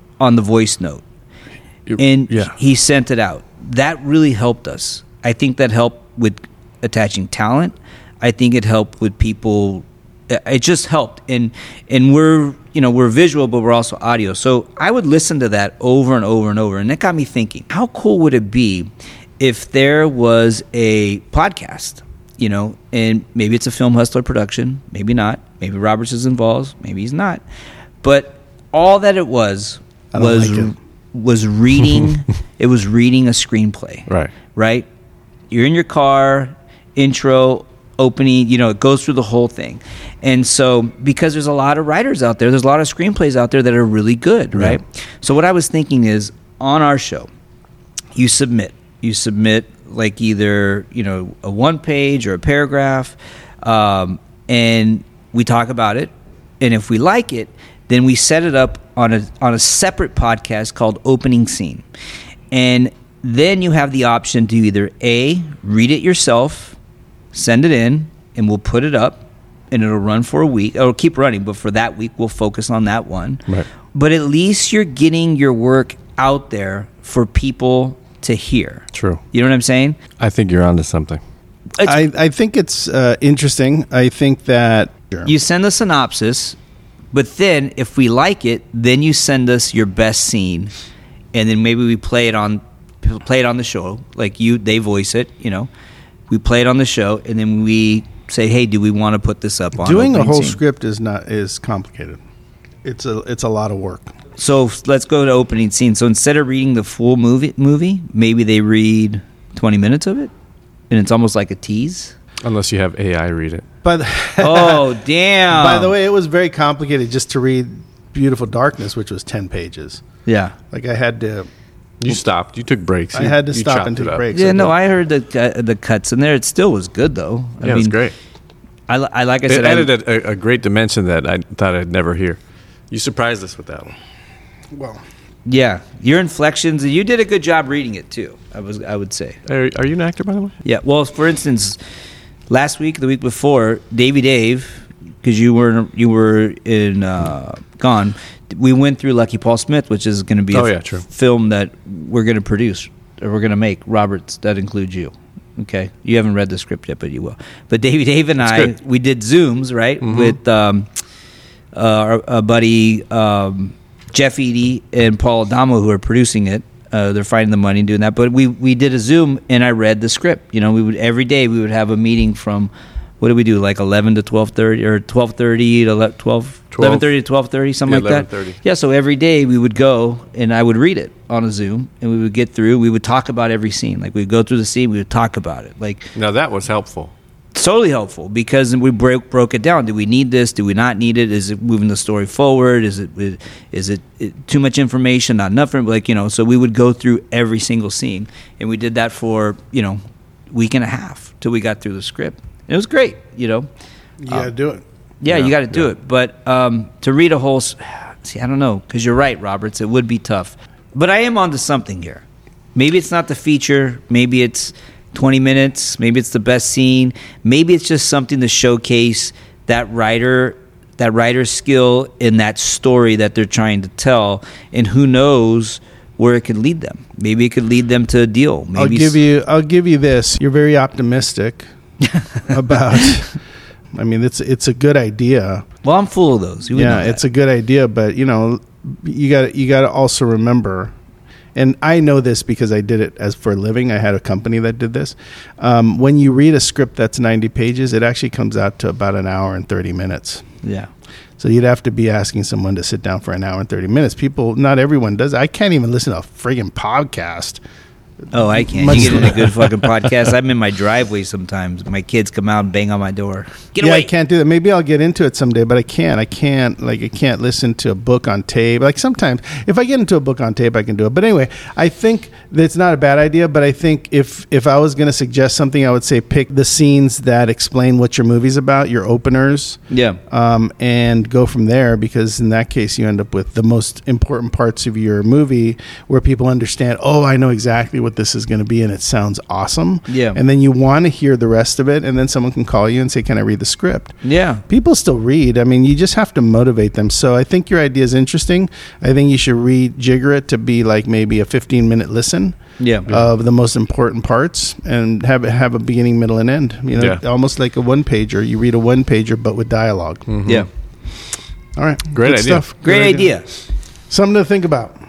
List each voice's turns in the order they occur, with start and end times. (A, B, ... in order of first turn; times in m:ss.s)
0:00.2-0:01.0 A
0:01.9-0:02.5 B
0:02.0-0:27.4 A
0:28.0-0:34.8 A
0:30.1-0:30.7 C
0:34.1-0:34.3 B
0:35.5-0:47.3 A
0:44.5-0:44.8 B
0:48.1-1:01.8 A
1:02.5-1:06.8 A
1:07.3-1:13.4 A
1:13.9-1:20.0 A
1:18.9-1:19.2 B
1:20.2-1:21.2 B
1:21.8-1:25.3 C
1:25.2-1:26.6 A
1:27.1-1:30.7 A
1:31.3-1:35.7 A
1:36.3-1:40.6 A
1:39.8-1:42.2 C
1:42.8-1:44.1 C
1:44.4-1:50.3 A
1:50.9-1:52.1 A
1:52.4-1:53.6 B
1:53.8-1:54.9 C
1:54.4-1:55.9 A
1:55.5-2:00.0 C
2:00.2-2:00.5 A
2:00.7-2:01.5 C
2:02.0-2:04.2 B
2:03.1-2:04.7 C
2:04.3-2:08.0 A
2:07.6-2:08.1 B
2:08.9-2:09.9 A
2:09.5-2:13.9 B
2:14.7-2:15.0 C
2:15.4-2:19.4 A
2:19.4-2:20.6 B
2:20.6-2:21.8 A
2:22.5-2:40.9 A
2:30.5-2:31.0 B
2:38.4-2:38.7 B
2:40.0-2:40.4 B
2:41.7-3:06.1 A
2:56.7-2:57.1 B
2:57.8-2:58.6 B
3:06.1-3:07.1 B
3:07.5-3:20.0 A
3:20.5-3:23.7 A
3:24.2-3:24.8 C
3:25.2-3:32.2 A
3:25.3-3:25.9 B
3:32.7-3:49.2 A
3:48.8-3:51.7 C
3:52.1-3:52.4 A
3:52.5-3:53.4 C
3:53.9-3:55.6 C
3:55.8-3:57.2 A
3:56.7-4:00.9 C
4:01.5-4:10.4 C
4:10.6-4:10.9 A
4:11.4-4:17.6 C
4:18.3-4:19.9 C
4:18.3-4:24.1 A
4:23.8-4:54.1 C
4:39.9-4:40.2 A
4:50.1-4:50.4 A
4:54.2-4:54.6 A
4:54.7-5:10.3 C
5:02.8-5:03.1 A
5:10.3-5:10.7 B
5:11.8-5:13.4 C
5:12.1-5:12.6 B
5:12.8-5:13.4 A
5:14.1-5:15.0 C